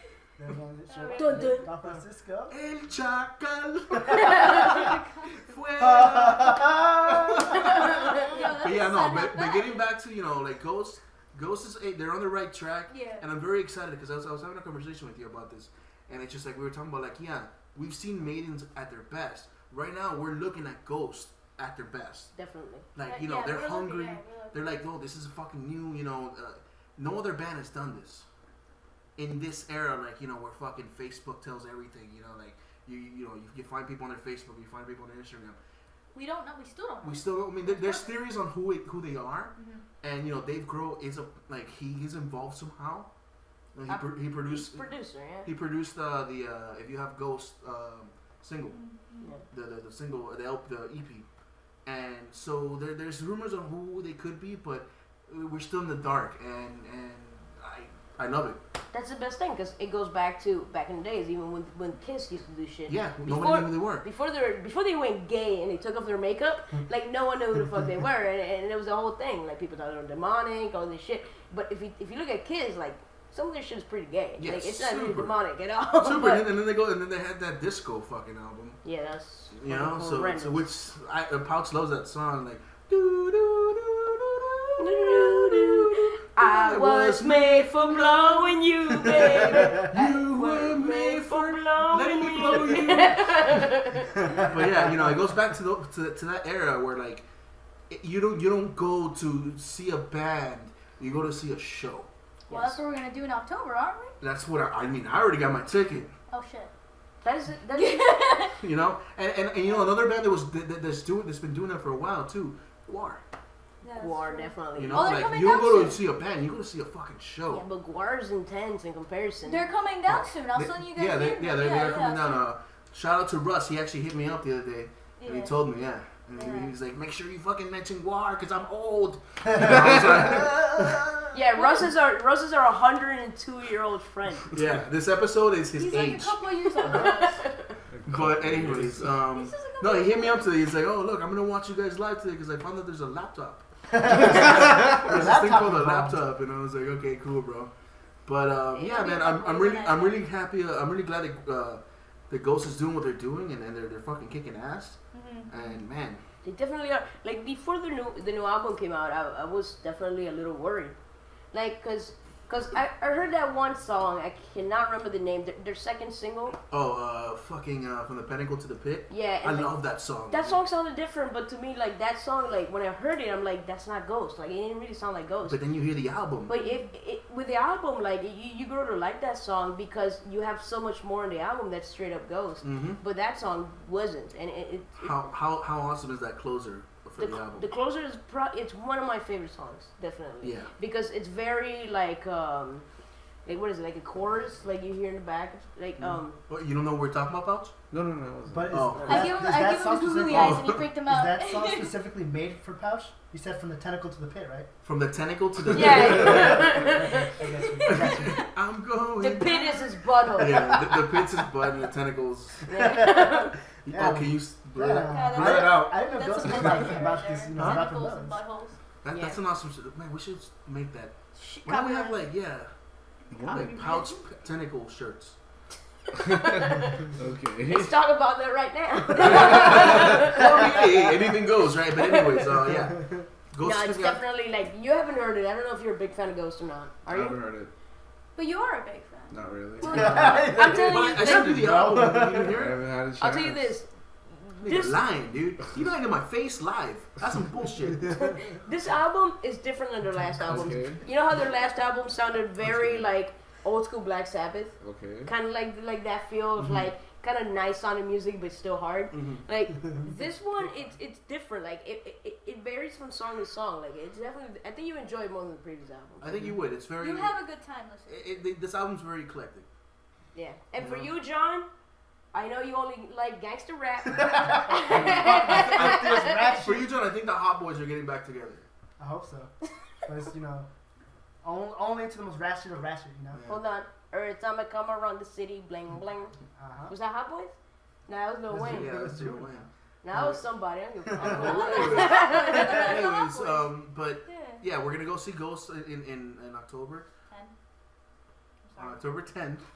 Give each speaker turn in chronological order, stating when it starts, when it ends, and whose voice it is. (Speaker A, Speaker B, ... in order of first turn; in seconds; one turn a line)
Speaker A: 0.4-2.5
Speaker B: 0.9-1.6
Speaker C: 1.1-1.7
Speaker D: 2.5-22.3
Speaker C: 4.2-4.8
Speaker B: 4.8-5.3
Speaker A: 5.8-7.6
Speaker C: 7.6-8.4
Speaker B: 8.3-9.8
Speaker B: 12.9-13.2
Speaker C: 22.3-22.9
Speaker D: 22.9-28.2
Speaker B: 23.0-24.6
Speaker D: 29.2-35.6
Speaker B: 36.1-38.1
Speaker D: 37.0-43.1
Speaker B: 39.6-39.8
Speaker D: 43.7-44.9
Speaker C: 43.9-45.5
Speaker D: 45.4-48.8
Speaker B: 48.7-49.3
Speaker D: 49.5-51.2
Speaker D: 51.8-58.6
Speaker C: 58.9-76.5
Speaker D: 62.9-64.1
Speaker D: 74.4-75.3
Speaker D: 76.0-78.8
Speaker C: 78.8-80.7
Speaker D: 79.5-84.8
Speaker C: 84.8-94.6
Speaker D: 85.5-88.5
Speaker D: 89.1-93.5
Speaker D: 94.5-97.2
Speaker D: 97.9-102.1
Speaker C: 102.5-102.8
Speaker B: 102.5-104.1
Speaker D: 104.2-106.1
Speaker B: 106.3-106.7
Speaker C: 107.2-108.2
Speaker B: 107.7-108.5
Speaker D: 108.6-113.2
Speaker B: 113.8-116.0
Speaker C: 114.0-115.3
Speaker D: 114.7-117.7
Speaker C: 117.5-119.7
Speaker B: 119.4-122.5
Speaker D: 120.0-131.3
Speaker B: 125.2-125.5
Speaker B: 126.3-126.7
Speaker A: 129.5-130.0
Speaker C: 131.3-134.5
Speaker B: 131.6-131.9
Speaker D: 134.5-136.4
Speaker B: 135.7-137.4
Speaker C: 136.8-137.7
Speaker E: 137.9-139.1
Speaker D: 138.1-147.7
Speaker B: 139.3-140.3
Speaker A: 143.9-146.2
Speaker D: 148.2-156.2
Speaker B: 148.7-150.2
Speaker B: 155.1-155.8
Speaker C: 156.4-160.9
Speaker C: 161.5-166.6
Speaker D: 166.7-170.6
Speaker C: 169.1-175.6
Speaker D: 175.4-176.5
Speaker C: 176.4-185.2
Speaker B: 176.6-176.9
Speaker D: 182.6-183.0
Speaker D: 185.0-187.7
Speaker C: 187.2-192.8
Speaker D: 190.4-190.7
Speaker C: 193.4-196.4
Speaker D: 196.0-197.7
Speaker E: 197.9-198.9
Speaker A: 198.5-204.7
Speaker D: 198.7-199.3
Speaker C: 198.9-199.3
Speaker B: 199.1-201.9
Speaker D: 200.2-200.9
Speaker D: 204.8-206.7
Speaker C: 205.7-207.3
Speaker A: 206.2-208.4
Speaker B: 207.6-208.4
Speaker D: 207.8-209.7
Speaker C: 209.2-210.9
Speaker B: 209.4-210.0
Speaker D: 210.3-212.6
Speaker C: 212.7-213.5
Speaker A: 212.7-213.3
Speaker D: 213.9-215.9
Speaker A: 213.9-218.4
Speaker B: 215.1-218.8
Speaker D: 217.6-217.9
Speaker D: 219.0-222.7
Speaker C: 219.1-219.4
Speaker B: 221.3-222.2
Speaker E: 223.3-223.7
Speaker B: 223.3-224.2
Speaker D: 223.4-225.3
Speaker C: 226.2-227.0
Speaker E: 226.2-228.0
Speaker C: 227.7-231.3
Speaker E: 229.1-230.2
Speaker D: 229.5-234.2
Speaker C: 231.9-232.5
Speaker C: 233.6-237.4
Speaker E: 237.1-237.7
Speaker B: 238.3-240.4
Speaker E: 239.3-240.4
Speaker C: 239.9-241.7
Speaker A: 239.9-242.6
Speaker D: 240.1-242.8
Speaker E: 242.4-243.8
Speaker C: 243.2-245.0
Speaker D: 244.6-248.1
Speaker C: 248.1-266.5
Speaker E: 250.4-251.0
Speaker E: 254.8-255.3
Speaker D: 259.1-259.4
Speaker D: 266.2-267.4
Speaker B: 267.0-268.2
Speaker D: 268.1-269.7
Speaker C: 270.3-271.7
Speaker D: 270.8-271.1
Speaker C: 272.3-276.6
Speaker A: 274.2-276.9
Speaker D: 274.9-278.6
Speaker A: 279.0-279.5
Speaker A: 280.0-280.7
Speaker A: 281.4-283.4
Speaker D: 283.3-283.6
Speaker C: 283.5-286.3
Speaker A: 286.6-286.9
Speaker C: 286.9-287.5
Speaker C: 288.1-289.1
Speaker A: 288.5-289.6
Speaker D: 288.6-290.4
Speaker C: 290.0-293.0
Speaker A: 291.1-291.5
Speaker D: 291.2-297.1
Speaker B: 291.6-293.7
Speaker B: 294.2-294.6
Speaker B: 298.6-299.0
Speaker D: 298.8-299.6